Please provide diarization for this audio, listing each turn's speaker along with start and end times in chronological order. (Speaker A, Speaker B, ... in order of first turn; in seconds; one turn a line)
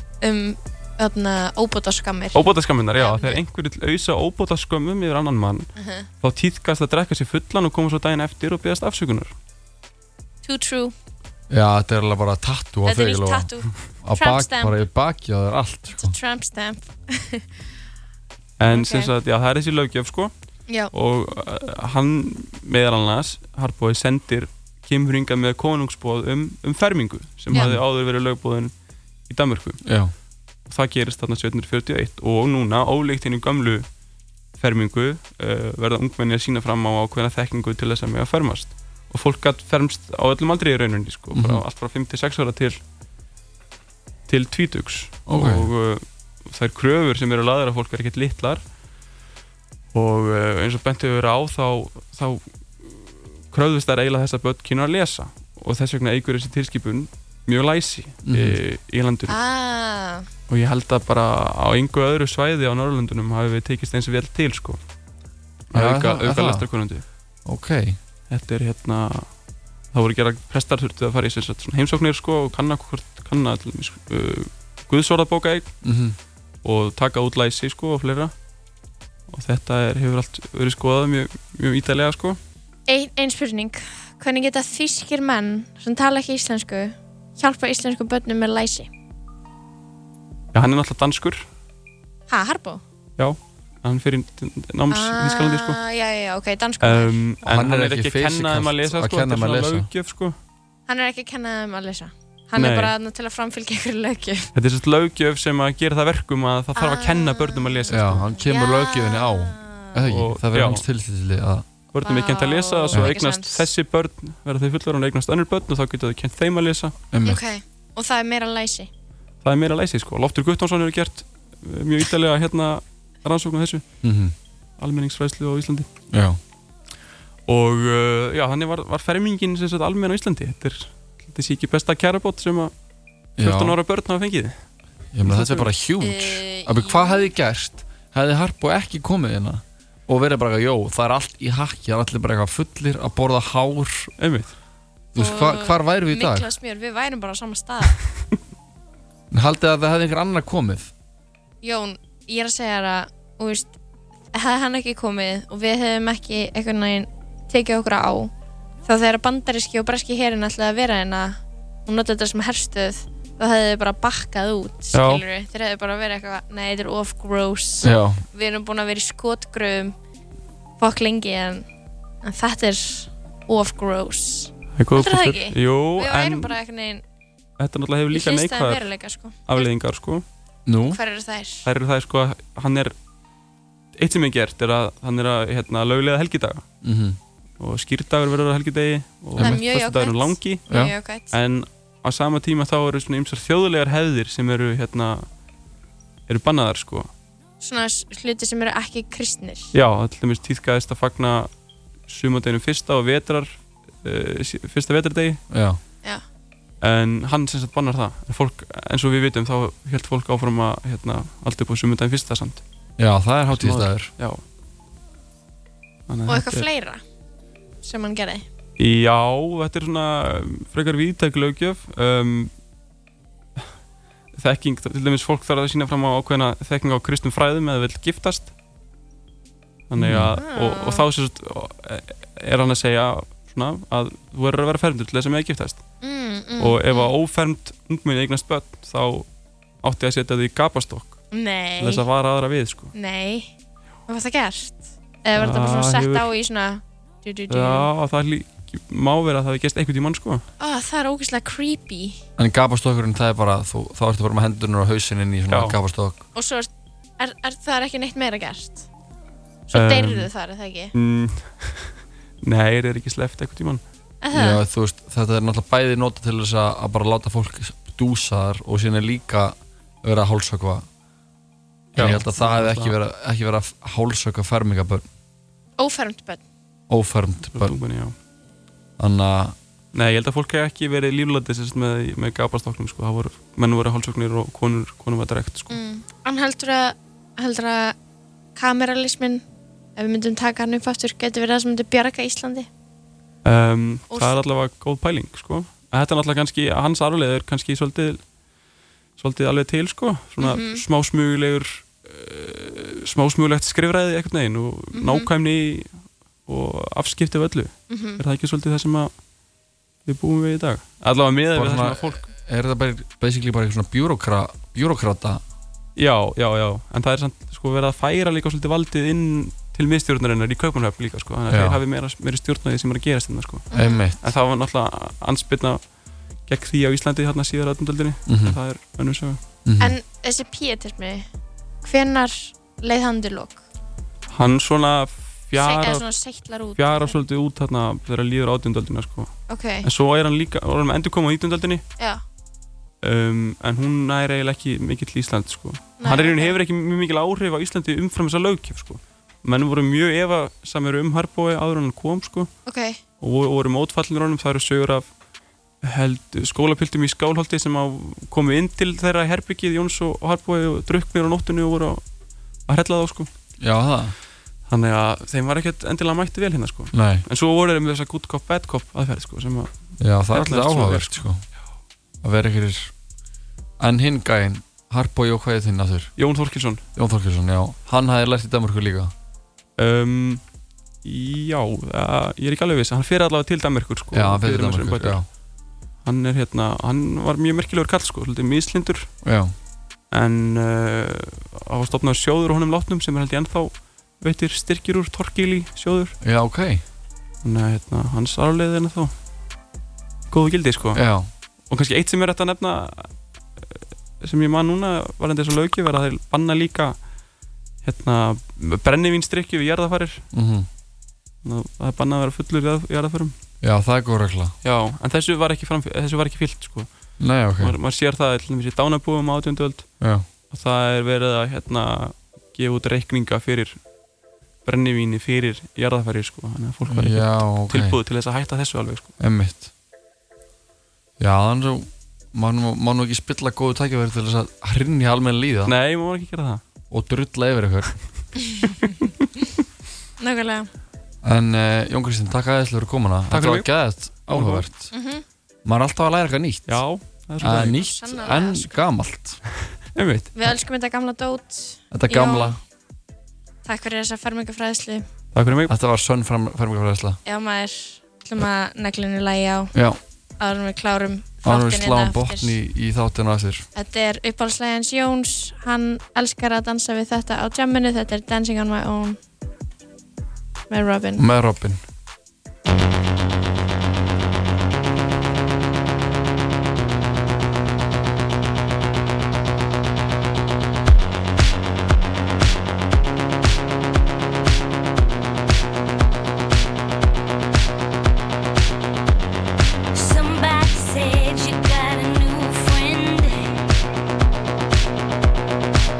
Speaker A: 0.2-2.4
Speaker B: 2.3-5.7
Speaker A: 3.0-3.4
Speaker A: 5.8-6.1
Speaker B: 6.2-9.3
Speaker A: 10.4-10.9
Speaker C: 11.5-13.5
Speaker A: 12.8-14.8
Speaker C: 14.0-16.1
Speaker A: 16.0-17.4
Speaker B: 18.6-20.3
Speaker A: 18.7-19.1
Speaker B: 20.9-28.7
Speaker C: 27.5-27.8
Speaker B: 29.3-29.8
Speaker C: 29.8-30.1
Speaker B: 30.7-33.9
Speaker B: 34.6-42.8
Speaker C: 41.3-41.6
Speaker B: 44.3-48.6
Speaker C: 45.3-45.7
Speaker B: 49.9-59.4
Speaker C: 58.2-58.6
Speaker A: 59.3-60.3
Speaker B: 60.5-64.8
Speaker B: 65.7-67.0
Speaker C: 65.7-66.7
Speaker C: 67.5-68.0
Speaker B: 68.3-69.3
Speaker B: 69.9-75.7
Speaker C: 75.8-76.2
Speaker B: 76.6-78.3
Speaker B: 79.3-82.4
Speaker A: 82.9-88.9
Speaker B: 90.5-91.4
Speaker A: 92.3-92.8
Speaker B: 93.2-95.8
Speaker A: 94.9-97.2
Speaker B: 96.8-100.3
Speaker C: 97.4-99.9
Speaker A: 100.9-104.5
Speaker B: 102.5-102.9
Speaker B: 104.5-108.2
Speaker A: 106.8-110.0
Speaker C: 107.9-111.7
Speaker B: 110.1-110.8
Speaker B: 111.9-116.9
Speaker A: 112.0-113.6
Speaker C: 117.1-117.4
Speaker A: 117.2-118.9
Speaker B: 119.4-123.8
Speaker C: 124.0-124.3
Speaker B: 124.8-125.9
Speaker C: 126.1-126.4
Speaker B: 127.5-132.7
Speaker B: 133.4-134.6
Speaker C: 133.4-133.8
Speaker C: 135.1-144.1
Speaker B: 135.2-135.7
Speaker A: 136.0-137.3
Speaker B: 144.2-144.5
Speaker C: 145.1-146.5
Speaker A: 145.2-148.0
Speaker C: 149.3-150.9
Speaker A: 151.6-153.7
Speaker A: 154.3-158.3
Speaker A: 158.8-169.9
Speaker B: 164.9-165.2
Speaker C: 167.8-168.2
Speaker A: 170.8-171.7
Speaker A: 172.2-177.0
Speaker B: 174.8-176.5
Speaker B: 177.6-178.8
Speaker A: 178.1-179.7
Speaker B: 179.5-180.2
Speaker C: 180.7-181.0
Speaker A: 180.9-181.7
Speaker B: 181.6-182.9
Speaker B: 184.0-186.6
Speaker C: 186.8-187.2
Speaker B: 187.6-190.7
Speaker C: 189.3-189.6
Speaker A: 189.4-191.3
Speaker B: 191.3-195.2
Speaker B: 196.3-197.1
Speaker A: 197.6-199.7
Speaker B: 199.7-201.5
Speaker B: 202.1-203.5
Speaker B: 204.0-205.4
Speaker C: 205.5-205.8
Speaker B: 206.8-212.6
Speaker C: 213.0-214.1
Speaker B: 213.5-214.4
Speaker B: 216.1-216.7
Speaker A: 216.3-217.0
Speaker A: 217.8-218.4
Speaker B: 218.8-222.5
Speaker B: 224.3-228.5
Speaker B: 229.9-235.8
Speaker C: 230.0-230.4
Speaker A: 230.4-231.1
Speaker A: 236.0-237.1
Speaker B: 236.6-239.2
Speaker B: 239.8-241.2
Speaker A: 241.3-242.0
Speaker B: 241.8-242.9
Speaker A: 242.9-243.5
Speaker A: 244.1-247.9
Speaker B: 245.3-246.3
Speaker B: 247.5-250.4
Speaker A: 250.6-252.2
Speaker C: 252.4-256.2
Speaker B: 255.5-255.8
Speaker A: 256.3-258.9
Speaker A: 259.7-260.9
Speaker B: 259.7-260.3
Speaker B: 260.9-263.8
Speaker A: 264.2-264.6
Speaker C: 264.3-270.9
Speaker B: 271.9-272.9
Speaker C: 271.9-275.1
Speaker A: 275.8-276.4
Speaker C: 276.9-277.8
Speaker B: 277.5-278.1
Speaker C: 279.0-279.5
Speaker B: 279.9-285.8
Speaker A: 285.7-287.9
Speaker A: 288.6-289.4
Speaker A: 289.9-292.7
Speaker B: 293.4-298.2
Speaker A: 294.1-294.4
Speaker B: 299.2-309.1
Speaker A: 300.4-300.8
Speaker A: 304.9-305.3
Speaker A: 307.9-308.2
Speaker B: 310.1-312.2
Speaker C: 311.5-315.4
Speaker B: 315.9-323.7
Speaker C: 321.5-321.8
Speaker A: 323.7-324.0
Speaker C: 323.7-324.2
Speaker B: 324.2-325.8
Speaker B: 326.5-329.4
Speaker C: 328.3-328.6
Speaker C: 329.6-329.9
Speaker A: 329.8-331.2
Speaker A: 331.8-333.6
Speaker B: 334.3-336.1
Speaker A: 335.6-337.2
Speaker B: 336.8-341.8
Speaker A: 339.5-339.9
Speaker B: 343.0-352.5
Speaker A: 346.0-346.6
Speaker A: 352.6-353.0
Speaker B: 353.2-355.1
Speaker B: 355.8-362.0
Speaker B: 362.7-363.3
Speaker C: 363.6-364.1
Speaker B: 364.7-369.7
Speaker C: 366.9-367.2
Speaker C: 370.0-371.4
Speaker B: 370.3-371.2
Speaker C: 372.2-372.9
Speaker C: 373.8-376.1
Speaker B: 376.2-376.8
Speaker C: 376.9-379.1
Speaker B: 379.8-380.4
Speaker B: 381.0-385.2
Speaker C: 384.1-385.2
Speaker B: 386.0-389.1
Speaker C: 389.2-389.5
Speaker B: 390.1-396.1
Speaker C: 396.2-396.8
Speaker B: 397.4-399.1
Speaker B: 400.3-401.0
Speaker C: 400.9-401.3
Speaker B: 401.7-407.0
Speaker B: 407.8-410.2
Speaker C: 410.3-410.7
Speaker B: 411.4-413.3
Speaker C: 413.6-414.6
Speaker B: 414.6-416.9
Speaker C: 417.2-417.8
Speaker B: 417.6-419.9
Speaker C: 420.0-420.2
Speaker B: 420.5-423.8
Speaker B: 424.6-429.1
Speaker C: 426.9-428.0
Speaker C: 429.2-429.7
Speaker C: 431.2-435.7
Speaker B: 435.6-436.6
Speaker C: 436.9-437.9
Speaker A: 438.4-438.9
Speaker B: 438.8-439.1
Speaker A: 440.2-440.7
Speaker C: 441.2-444.9
Speaker B: 443.3-443.7
Speaker B: 444.3-444.6
Speaker A: 444.9-445.2
Speaker C: 445.6-446.8
Speaker B: 446.7-447.8
Speaker C: 447.4-449.4
Speaker A: 447.5-448.8
Speaker B: 449.9-450.3
Speaker A: 450.4-452.6
Speaker C: 451.9-452.6
Speaker A: 453.6-455.1
Speaker B: 455.3-455.7
Speaker C: 455.7-457.2
Speaker A: 457.2-459.7
Speaker C: 459.7-460.0
Speaker A: 460.4-462.5
Speaker C: 461.4-463.6
Speaker A: 463.7-469.2
Speaker A: 470.7-471.2
Speaker C: 471.2-471.8
Speaker D: 489.9-493.6